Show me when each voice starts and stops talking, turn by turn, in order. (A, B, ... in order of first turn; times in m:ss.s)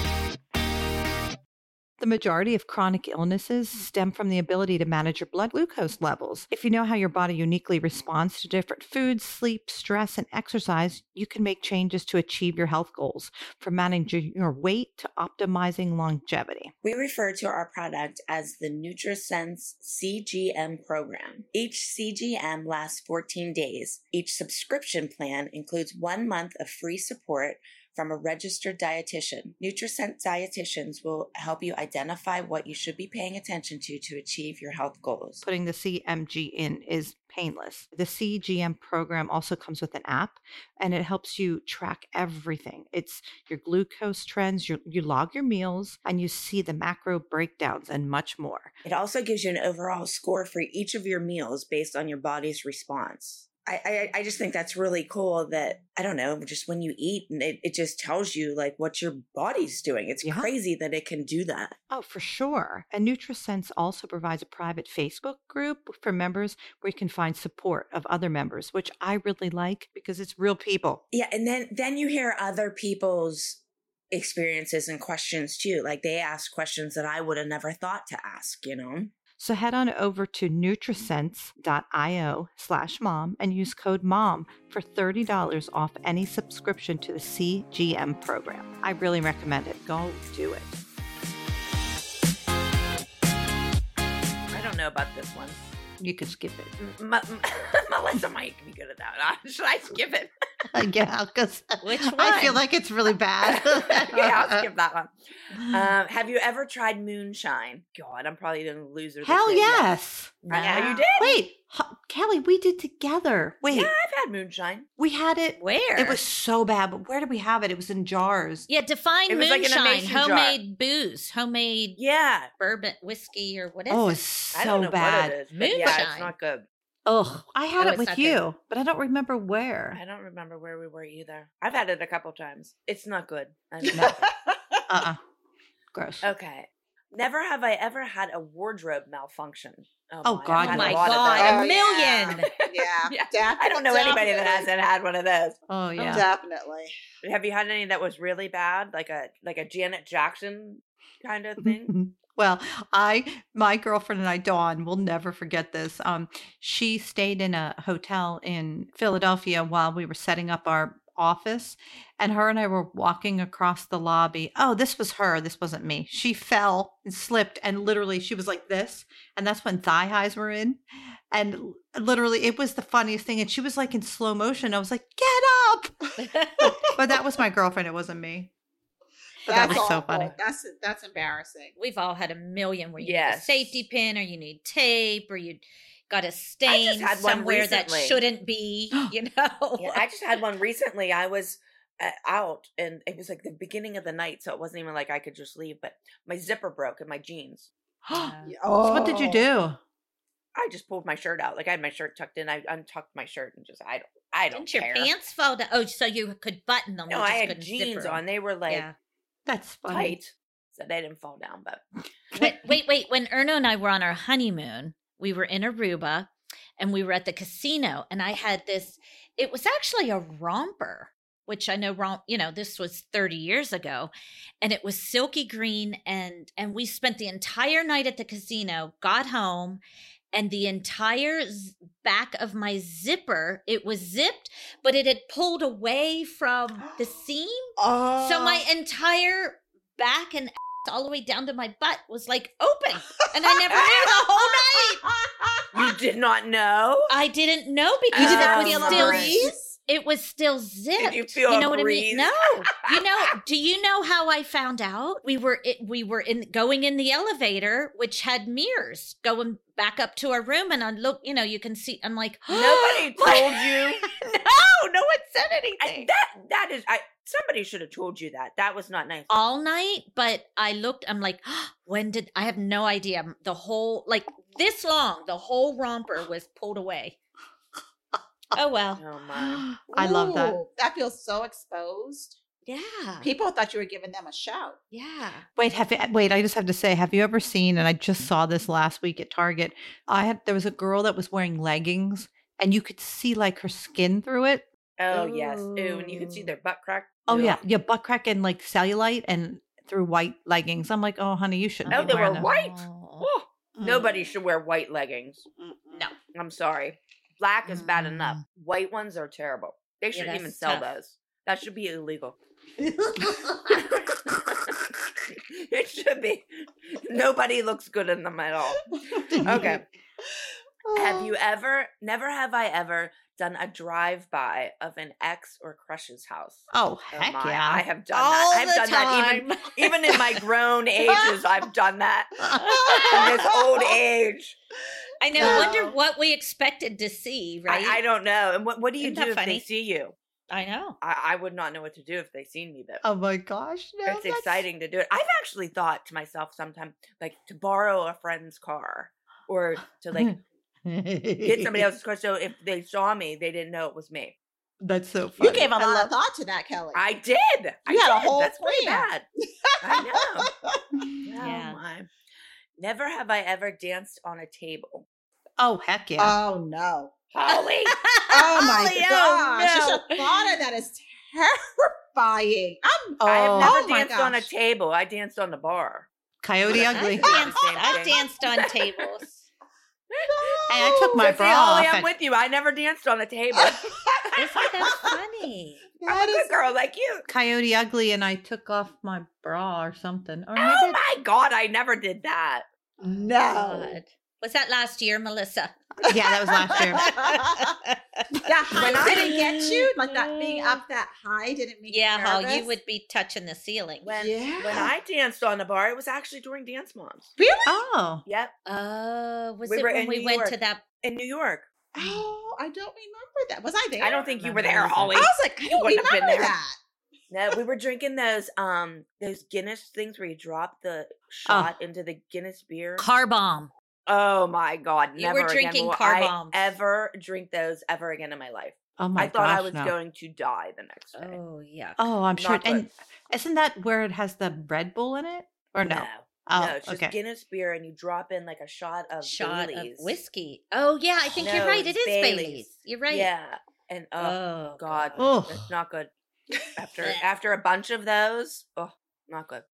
0:02.0-0:16.7 A
0:16.8-0:35.4 B
0:35.4-0:48.7 A
0:48.8-1:01.8 B
1:00.2-1:00.5 A
1:01.9-1:11.0 A
1:11.1-1:19.1 B
1:19.4-1:30.8 A
1:34.5-1:35.6 B
1:36.0-1:36.7 A
1:36.8-1:40.3 B
1:40.7-1:44.7 A
1:41.8-1:42.6 C
1:43.4-1:49.9 B
1:45.6-1:45.9 A
1:49.2-1:53.9 A
1:50.4-1:51.1 C
1:50.5-1:51.4 B
1:53.6-1:54.9 B
1:55.0-1:58.7 A
1:55.6-1:56.2 C
1:58.7-2:02.0 C
1:59.3-2:00.6 B
2:02.0-2:02.5 B
2:02.6-2:04.2 C
2:03.9-2:05.4 A
2:04.5-2:06.7 B
2:05.5-2:06.3 C
2:07.1-2:10.0 A
2:07.8-2:08.4 C
2:09.9-2:14.3 B
2:13.8-2:14.8 D
2:14.9-2:15.2 A
2:15.9-2:16.2 A
2:16.2-2:25.6 B
2:20.2-2:21.6 A
2:20.6-2:22.5 C
2:21.4-2:24.7 D
2:25.7-2:26.3 A
2:26.0-2:26.9 D
2:27.2-2:31.9 B
2:31.6-2:56.1 A
2:56.2-2:56.8 C
2:56.6-2:57.4 D
2:56.6-2:58.5 A
2:59.5-3:00.3 A
2:59.5-3:01.8 D
3:01.8-3:10.1 C
3:03.0-3:03.8 B
3:06.7-3:08.2 B
3:09.8-3:17.7 B
3:18.0-3:18.3 A
3:18.1-3:18.5 C
3:18.4-3:19.5 D
3:18.8-3:19.8 A
3:20.6-3:25.1 B
3:24.5-3:28.9 C
3:27.1-3:28.9 B
3:29.5-3:30.2 A
3:29.9-3:31.8 B
3:32.4-3:49.8 C
3:50.3-4:05.0 C
3:57.8-3:58.6 D
4:03.7-4:04.1 B
4:04.0-4:05.9 D
4:05.7-4:07.1 B
4:07.1-4:26.1 C
4:08.1-4:09.4 B
4:08.2-4:09.8 D
4:11.0-4:13.3 B
4:22.5-4:24.0 B
4:25.8-4:29.3 B
4:29.3-4:37.2 C
4:38.6-4:39.6 C
4:39.0-4:39.6 B
4:39.9-4:40.6 A
4:39.9-4:42.4 D
4:42.7-4:43.3 C
4:43.2-4:44.8 D
4:44.9-4:45.5 C
4:45.6-4:54.6 A
4:55.0-4:57.6 B
4:55.1-4:56.5 C
4:57.3-5:02.5 A
5:01.9-5:03.3 C
5:01.9-5:05.5 B
5:03.8-5:04.3 D
5:05.6-5:06.1 D
5:06.3-5:12.4 B
5:07.7-5:08.4 C
5:10.1-5:10.9 C
5:12.8-5:13.9 A
5:13.7-5:19.8 B
5:18.9-5:19.7 D
5:19.3-5:19.8 A
5:21.0-5:32.5 B
5:26.7-5:27.8 A
5:28.1-5:30.4 C
5:32.4-5:32.8 A
5:32.5-5:34.0 D
5:32.6-5:33.4 C
5:33.0-5:34.6 B
5:35.2-5:38.0 C
5:35.4-5:36.0 D
5:35.4-5:35.7 A
5:37.7-5:40.2 B
5:39.0-5:39.6 C
5:40.5-5:41.0 C
5:41.0-5:43.0 B
5:43.0-5:44.6 A
5:44.1-5:50.4 B
5:50.2-5:51.9 A
5:51.4-5:54.4 B
5:54.8-5:56.1 A
5:55.4-5:57.0 D
5:56.9-5:59.2 B
5:57.9-5:59.1 D
5:59.6-6:01.1 D
5:59.8-6:00.5 B
6:01.3-6:02.1 B
6:01.4-6:01.8 C
6:02.8-6:05.1 B
6:05.6-6:06.4 A
6:06.2-6:07.1 D
6:07.3-6:08.0 B
6:07.5-6:09.2 C
6:08.3-6:14.5 D
6:08.7-6:10.0 B
6:13.2-6:13.8 A
6:13.2-6:16.1 B
6:16.4-6:17.3 A
6:16.7-6:19.0 B
6:16.8-6:19.5 C
6:20.1-6:24.7 B
6:20.3-6:21.3 D
6:20.7-6:22.1 A
6:23.5-6:24.0 D
6:24.4-6:25.8 C
6:24.8-6:25.1 D
6:26.0-6:26.6 D
6:26.1-6:27.3 B
6:27.3-6:31.0 A
6:30.6-6:32.6 B
6:33.0-6:34.0 D
6:33.5-6:35.8 C
6:36.0-6:37.2 A
6:36.1-6:37.6 D
6:36.7-6:38.3 C
6:38.4-6:42.8 D
6:38.8-6:39.4 B
6:39.0-6:40.8 C
6:41.9-6:44.1 C
6:44.0-6:47.3 B
6:44.2-6:44.9 D
6:47.4-6:47.8 D
6:47.7-6:48.2 A
6:48.3-6:48.5 B
6:48.7-6:50.8 C
6:49.7-6:51.7 B
6:51.9-6:56.8 D
6:54.0-6:56.6 B
6:54.6-6:55.2 C
6:57.3-7:03.1 B
7:01.5-7:01.7 A
7:03.0-7:03.7 C
7:04.1-7:11.4 B
7:05.2-7:06.6 C
7:09.0-7:09.9 A
7:11.1-7:12.0 C
7:12.0-7:17.1 A
7:12.4-7:12.8 B
7:15.8-7:20.1 B
7:19.2-7:23.3 C
7:21.4-7:26.1 B
7:24.2-7:25.2 C
7:25.2-7:25.7 A
7:26.8-7:29.6 B